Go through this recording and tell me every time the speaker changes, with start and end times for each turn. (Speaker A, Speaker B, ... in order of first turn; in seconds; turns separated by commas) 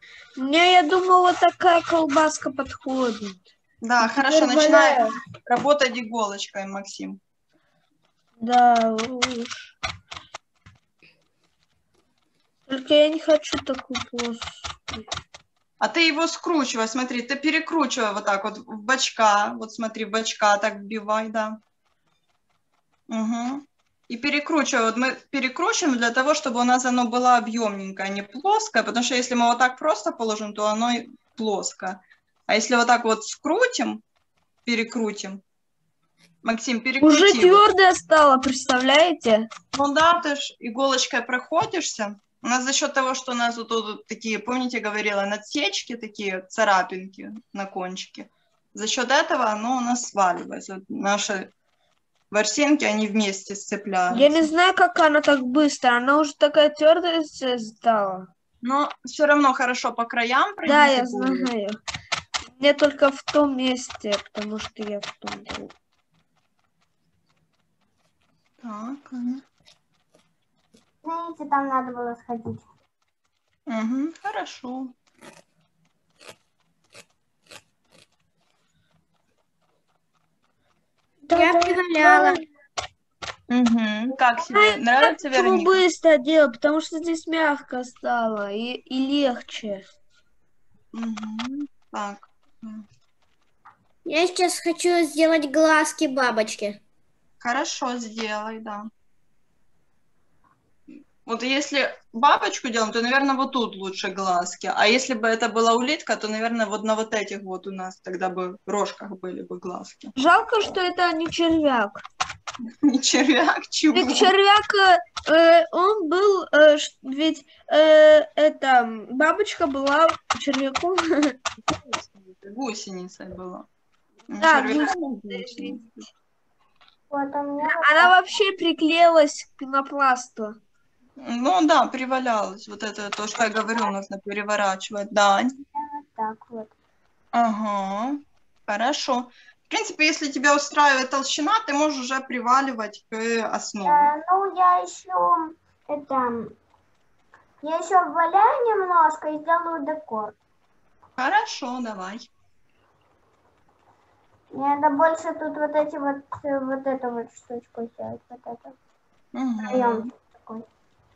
Speaker A: 0.4-3.4, Speaker B: 3.8-7.2, Speaker A: 4.0-5.2, Speaker A: 8.4-9.8, Speaker A: 12.7-15.0, Speaker B: 15.8-21.6, Speaker B: 23.1-34.0, Speaker B: 34.7-35.4, Speaker B: 36.4-37.6, Speaker A: 37.0-39.5, Speaker B: 39.7-51.5, Speaker B: 52.3-54.5, Speaker A: 54.1-58.3, Speaker B: 58.6-61.5, Speaker A: 60.7-61.8, Speaker A: 62.6-65.7, Speaker B: 68.6-69.4, Speaker C: 71.0-72.7, Speaker B: 73.7-74.9, Speaker A: 81.3-82.4, Speaker D: 81.3-82.4, Speaker B: 83.5-85.8, Speaker A: 84.5-89.8, Speaker B: 90.9-92.9, Speaker D: 94.1-96.8, Speaker B: 97.4-98.9, Speaker B: 101.2-110.2, Speaker A: 110.2-112.0, Speaker B: 112.8-114.3, Speaker A: 113.9-121.4, Speaker B: 121.7-123.7, Speaker B: 124.3-126.1, Speaker A: 124.4-125.8, Speaker C: 127.1-128.1, Speaker A: 127.6-130.6, Speaker B: 131.2-135.6, Speaker C: 135.7-136.7, Speaker B: 137.3-144.1, Speaker C: 143.9-146.6, Speaker C: 147.6-150.4, Speaker B: 151.2-152.3, Speaker C: 154.5-158.8, Speaker B: 159.3-160.1, Speaker C: 159.6-160.7